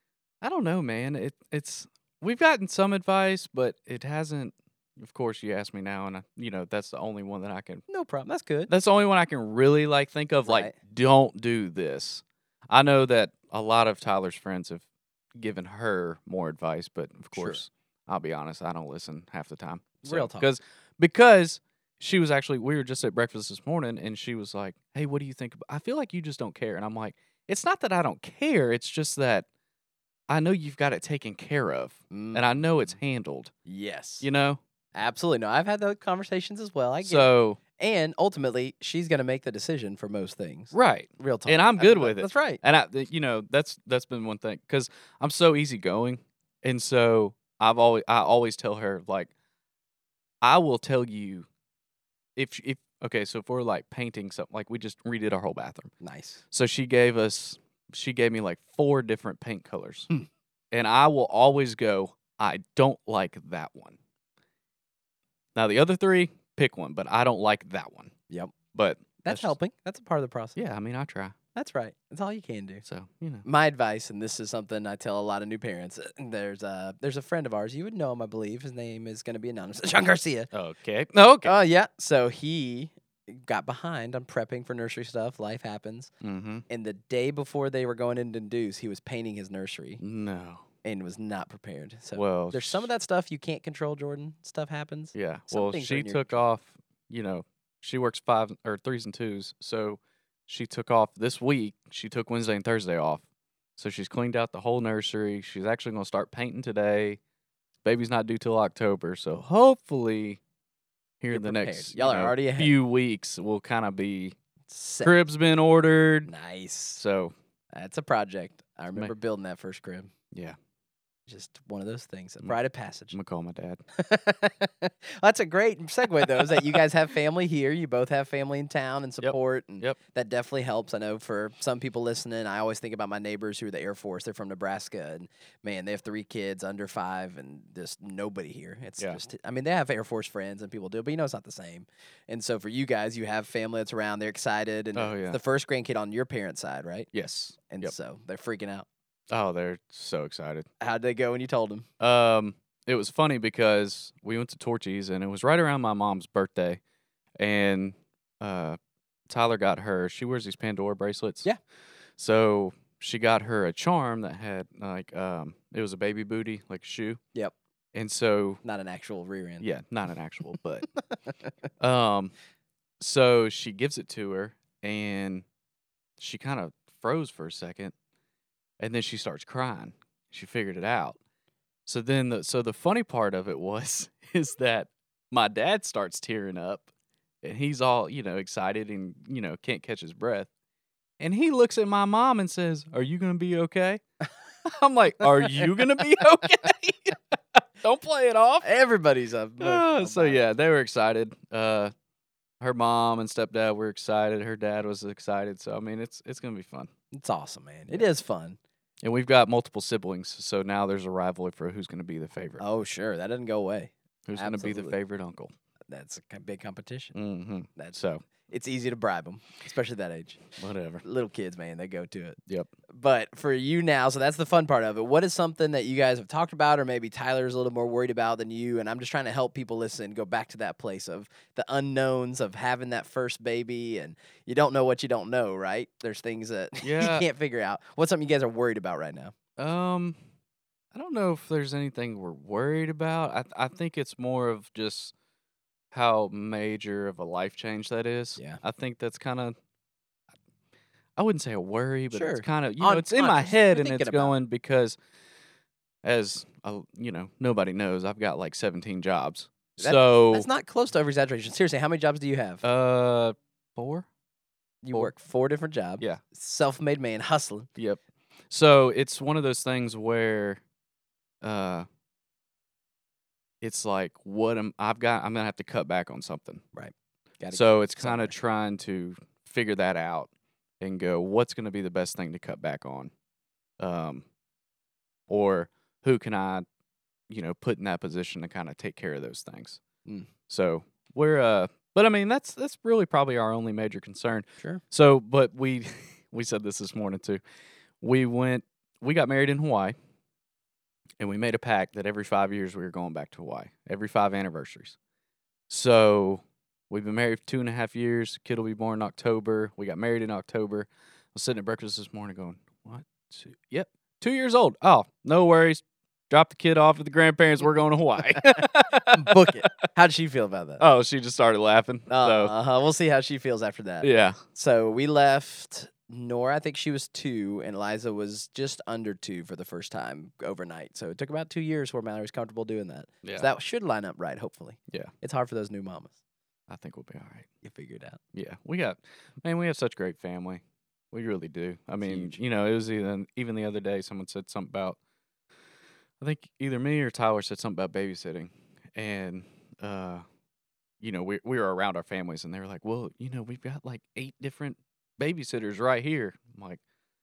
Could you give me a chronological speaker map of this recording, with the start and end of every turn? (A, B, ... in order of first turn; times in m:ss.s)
0:00.4-0:07.8 A
0:07.9-0:08.7 B
0:08.7-0:14.8 A
0:10.4-0:10.8 B
0:15.4-0:29.5 A
0:17.4-0:17.6 B
0:20.0-0:20.5 B
0:30.3-0:33.5 A
0:32.1-0:32.9 B
0:33.7-0:34.3 B
0:34.2-0:34.6 A
0:35.0-0:42.6 B
0:37.0-0:37.6 A
0:40.7-0:49.3 A
0:50.4-0:51.5 A
0:52.4-0:55.9 A
0:56.0-0:56.4 B
0:56.5-1:00.1 A
1:00.7-1:04.0 A
1:05.6-1:08.1 A
1:08.7-1:09.5 A
1:09.2-1:10.6 B
1:10.6-1:11.4 A
1:11.6-1:12.8 B
1:12.8-1:13.5 A
1:13.4-1:20.5 B
1:20.5-1:21.6 A
1:21.4-1:26.1 B
1:26.2-1:26.6 A
1:26.7-1:30.0 B
1:30.0-1:30.6 A
1:30.8-1:36.4 B
1:32.2-1:32.9 A
1:35.2-1:43.2 A
1:43.8-1:47.2 A
1:47.8-1:50.4 A
1:51.2-1:54.4 A
1:51.3-1:52.8 B
1:54.7-1:55.2 B
1:55.0-1:56.3 A
1:56.2-1:57.0 B
1:57.0-1:57.3 A
1:57.7-2:00.1 B
2:00.3-2:00.6 A
2:01.3-2:03.2 B
2:03.1-2:03.8 A
2:04.0-2:27.1 B
2:06.4-2:06.7 A
2:09.2-2:10.0 A
2:25.0-2:25.4 A
2:27.1-2:27.9 A
2:27.7-2:28.9 B
2:29.3-2:30.7 A
2:30.8-2:31.9 B
2:32.0-2:36.8 A
2:37.4-2:38.8 A
2:39.3-2:41.5 A
2:42.2-2:47.2 A
2:47.9-2:48.6 A
2:48.6-2:49.7 B
2:49.6-2:50.9 A
2:51.8-2:52.3 A
2:53.0-2:55.4 A
2:56.2-2:57.9 A
2:58.8-3:01.2 A
3:01.9-3:06.9 A
3:07.4-3:10.5 A
3:11.2-3:14.0 A
3:14.6-3:18.6 A
3:18.6-3:20.4 B
3:19.6-3:21.9 A
3:22.6-3:26.9 A
3:27.1-3:28.6 B
3:29.0-3:32.6 A
3:32.6-3:35.0 B
3:34.3-3:35.5 A
3:35.9-3:37.2 B
3:37.2-3:38.2 A
3:37.8-3:40.4 B
3:40.6-3:41.0 A
3:41.0-3:42.4 B
3:42.9-3:59.3 B
3:56.8-3:57.3 A
3:59.6-4:00.2 A
4:00.9-4:05.1 A
4:05.9-4:09.6 A
4:08.4-4:08.6 B
4:11.2-4:15.0 A
4:12.1-4:14.4 B
4:16.0-4:20.5 A
4:19.8-4:22.6 B
4:22.6-4:24.1 A
4:24.8-4:27.7 B
4:27.8-4:30.6 A
4:31.4-4:31.9 A
4:33.6-4:36.6 A
4:36.7-4:38.3 B
4:37.5-4:40.3 A
4:40.8-4:43.1 A
4:43.8-4:44.2 A
4:45.3-4:46.6 A
4:47.3-4:49.8 A
4:50.5-4:57.4 A
4:58.0-4:59.9 A
5:01.2-5:05.0 A
5:05.7-5:19.6 A
5:18.4-5:20.8 B
5:20.8-5:22.5 A
5:22.1-5:36.2 B
5:24.0-5:24.4 A
5:33.2-5:33.5 A
5:36.7-5:37.4 A
5:37.6-5:38.2 B
5:38.3-5:45.0 A
5:42.0-5:42.4 B
5:46.2-5:50.2 A
5:51.0-5:56.8 A